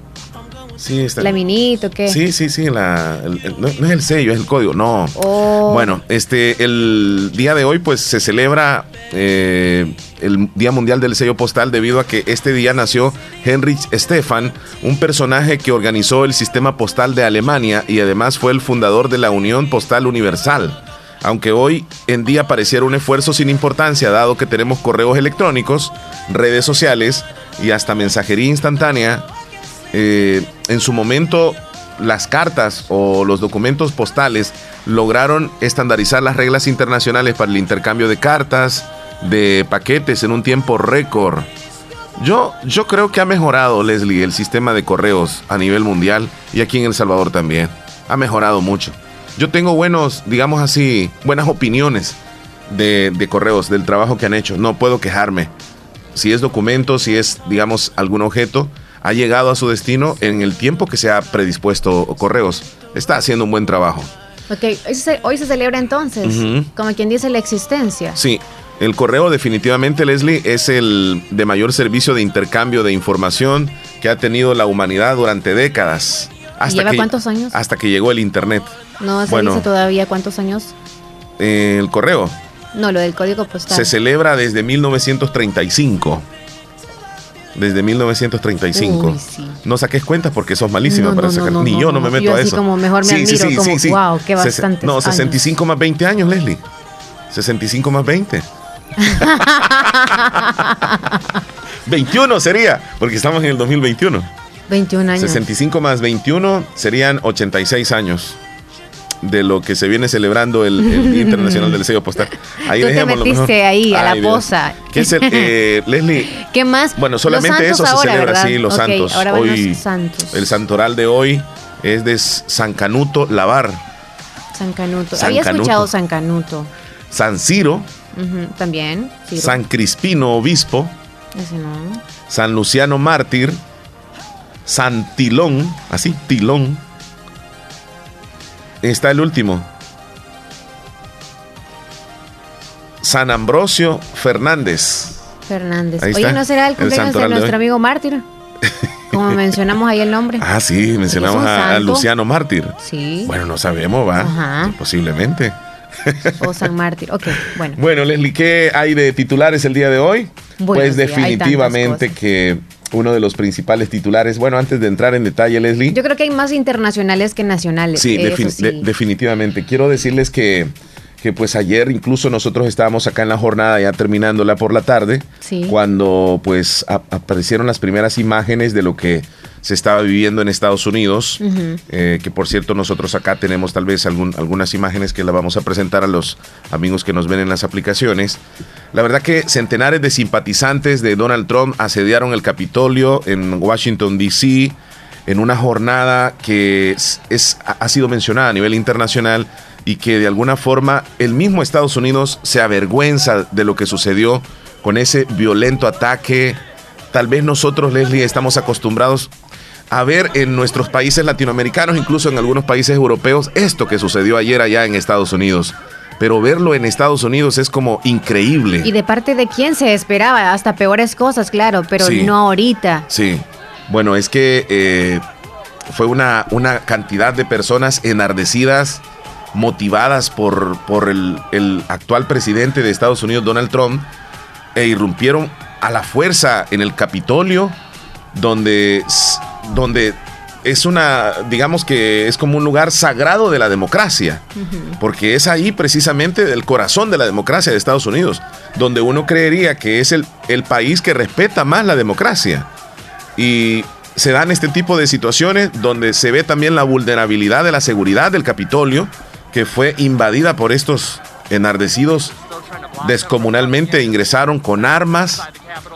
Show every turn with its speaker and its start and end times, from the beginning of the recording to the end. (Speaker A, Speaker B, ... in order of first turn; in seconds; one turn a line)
Speaker A: 0.8-1.3
Speaker B: 1.2-2.2
Speaker A: 2.0-5.1
Speaker B: 5.1-6.0
Speaker A: 5.7-29.2
Speaker A: 29.9-41.5
Speaker A: 42.2-55.5
Speaker A: 56.1-64.1
Speaker B: 64.5-68.2
Speaker A: 66.2-66.7
Speaker A: 68.1-79.7
Speaker B: 76.7-77.5
Speaker B: 79.0-80.7
Speaker A: 81.4-82.3
Speaker B: 82.7-83.9
Speaker A: 83.7-86.2
Speaker A: 87.5-96.6
Speaker B: 88.7-89.6
Speaker B: 90.8-95.4
Speaker A: 97.3-98.5
Speaker B: 99.0-101.3
Speaker A: 101.9-104.3
Speaker B: 104.7-105.4
Speaker A: 105.2-108.4
Speaker A: 109.2-116.3
Speaker B: 110.8-111.8
Speaker B: 112.7-115.5
Speaker B: 116.3-120.4
Speaker A: 117.0-119.8
Speaker A: 120.3-123.8
Speaker B: 124.5-126.7
Speaker A: 125.1-125.9
Speaker A: 127.1-127.9
Speaker B: 128.1-129.6
Speaker A: 129.3-130.9
Speaker B: 131.3-132.0
Speaker A: 132.3-133.6
Speaker A: 134.7-136.8
Speaker A: 138.8-139.7
Speaker A: 143.0-145.2
Speaker B: 145.5-148.2
Speaker A: 146.0-147.5
Speaker A: 148.6-149.4
Speaker B: 149.1-150.4
Speaker A: 150.4-156.5
Speaker B: 151.1-152.1
Speaker B: 152.8-153.3
Speaker B: 154.2-154.8
Speaker B: 156.4-157.8
Speaker A: 157.3-166.0
Speaker B: 160.6-162.1
Speaker B: 165.9-168.9
Speaker A: 167.9-188.4
Speaker B: 175.4-175.7
Speaker B: 181.4-181.8
Speaker A: 188.9-194.8
Speaker A: 195.3-206.6
Speaker A: 207.1-209.3
Speaker A: 209.9-218.9
Speaker B: 218.8-223.1
Speaker A: 222.0-222.3
Speaker A: 223.1-225.2
Speaker A: 225.9-234.1
Speaker A: 234.7-237.8
Speaker A: 238.3-244.4
Speaker B: 244.6-245.0
Speaker A: 245.0-252.7
Speaker A: 253.3-262.4
Speaker A: 263.0-265.4